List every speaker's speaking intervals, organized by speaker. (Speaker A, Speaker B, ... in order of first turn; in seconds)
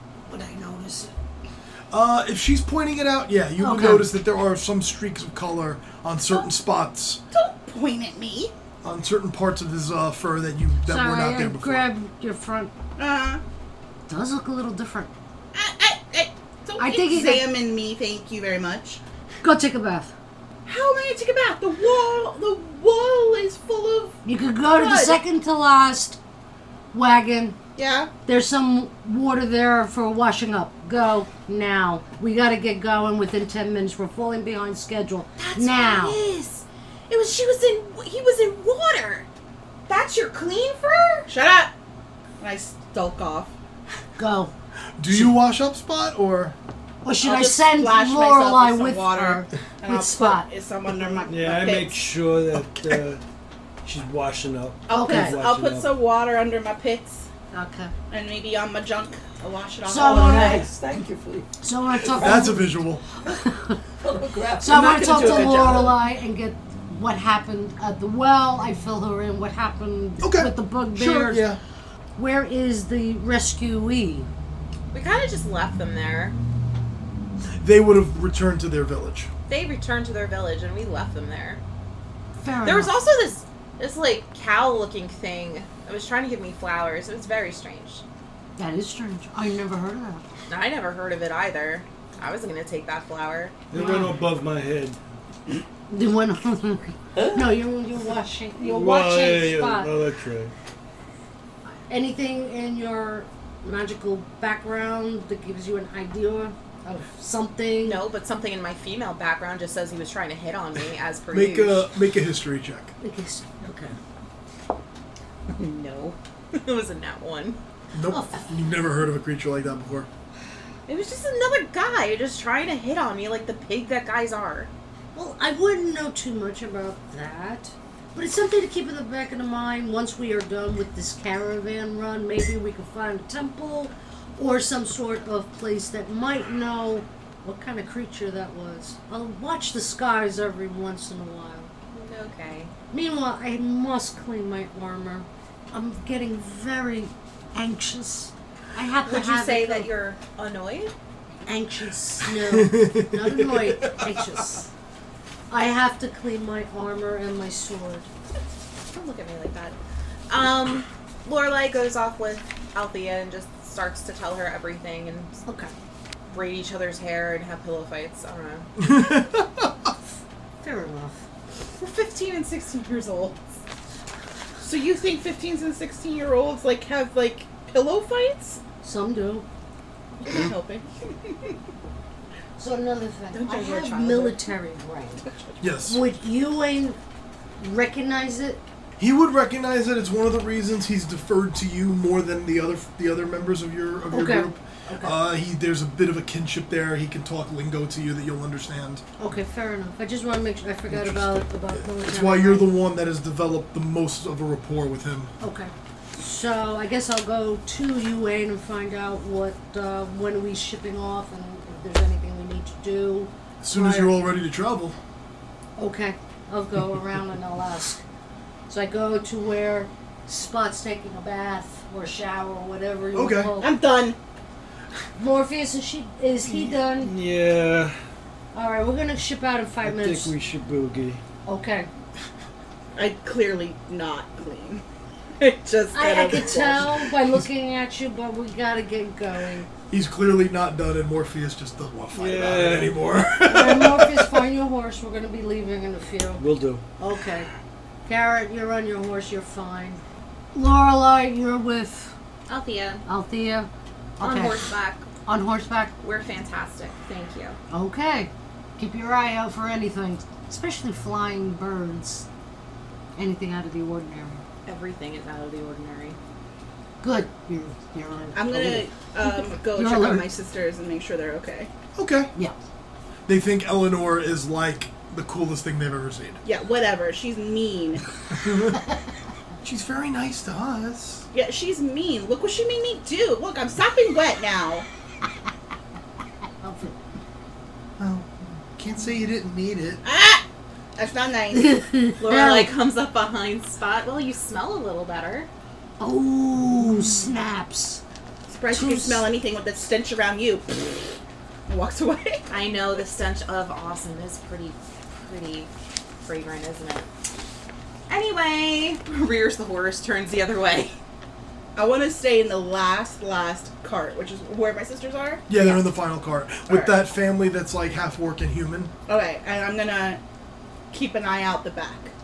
Speaker A: 0.3-1.1, 3.6-4.1, 10.8-12.7, 14.1-15.1, 16.8-17.5, 19.4-20.1, 24.2-26.2, 26.9-27.6, 28.2-36.2, 44.2-44.5, 45.1-45.3, 47.0-51.2, 54.9-55.4, 57.5-57.9, 59.8-60.7, 61.6-62.7, 63.3-63.8, 64.6-71.5, 72.2-74.3, 82.4-82.9, 88.6-90.2, 93.7-94.2, 95.9-100.0, 101.9-108.0, 113.0-114.0, 118.1-118.5, 125.1-141.7, 142.9-149.9, 151.4-154.7, 155.5-158.1, 165.5-165.7, 170.6-171.2, 178.8-179.4, 182.6-185.3, 185.8-187.0, 187.6-188.6, 194.1-195.2, 199.2-202.7, 205.4-214.2, 215.8-218.0, 218.7-223.8, 225.2-227.2, 228.5-230.3, 231.4-231.9, 235.9-239.7, 243.4-246.4, 247.0-247.5, 248.1-250.0, 250.5-252.2, 253.1-254.6, 255.2-255.9, 257.7-262.3, 263.1-264.4, 267.0-270.3, 286.6-287.0, 291.6-292.7, 296.0-298.0, 298.7-299.2, 315.5-315.8
Speaker B: 1.9-7.2, 8.8-11.9, 45.0-46.5, 62.2-63.0, 70.2-71.6, 77.6-79.3, 111.3-112.9, 117.9-120.1, 152.5-154.0, 168.8-169.7, 185.6-186.0, 189.0-199.0, 200.9-205.3, 213.6-215.0, 223.1-223.6, 239.9-244.4, 271.9-272.3, 273.3-276.4, 278.4-278.8, 279.6-281.2, 288.0-290.0, 315.5-318.9
Speaker C: 7.3-8.5, 13.0-13.4, 15.5-19.0, 20.6-25.2, 27.8-28.1, 41.3-41.7, 42.4-43.5, 47.2-52.1, 54.9-57.3, 58.1-60.7, 65.1-65.9, 174.6-178.6, 180.2-181.5, 183.3-184.4, 223.6-224.2, 232.9-234.8, 235.4-237.0, 268.3-271.7, 276.4-278.0, 281.3-284.9, 290.0-290.4, 290.9-291.8, 298.5-301.0, 301.7-302.4, 311.7-315.4, 316.7-317.0, 319.1-320.2, 320.9-322.1
Speaker D: 35.4-39.2, 39.9-41.3, 74.9-76.3, 79.5-81.6, 82.6-88.0, 90.5-93.6, 107.8-111.9, 115.5-117.6, 120.9-124.7, 141.9-142.7, 149.0-150.9, 158.9-159.8, 160.3-165.4, 166.3-168.7, 171.8-173.4, 252.5-253.0, 254.2-255.1, 256.0-257.6, 264.6-266.2, 292.2-295.5, 302.5-307.1, 308.1-310.9
Speaker E: 51.2-53.2, 53.8-55.9, 93.7-95.0, 98.6-100.5, 226.4-227.9, 229.8-231.2, 242.1-243.0, 246.4-246.8
Speaker F: 59.9-63.4, 64.0-66.0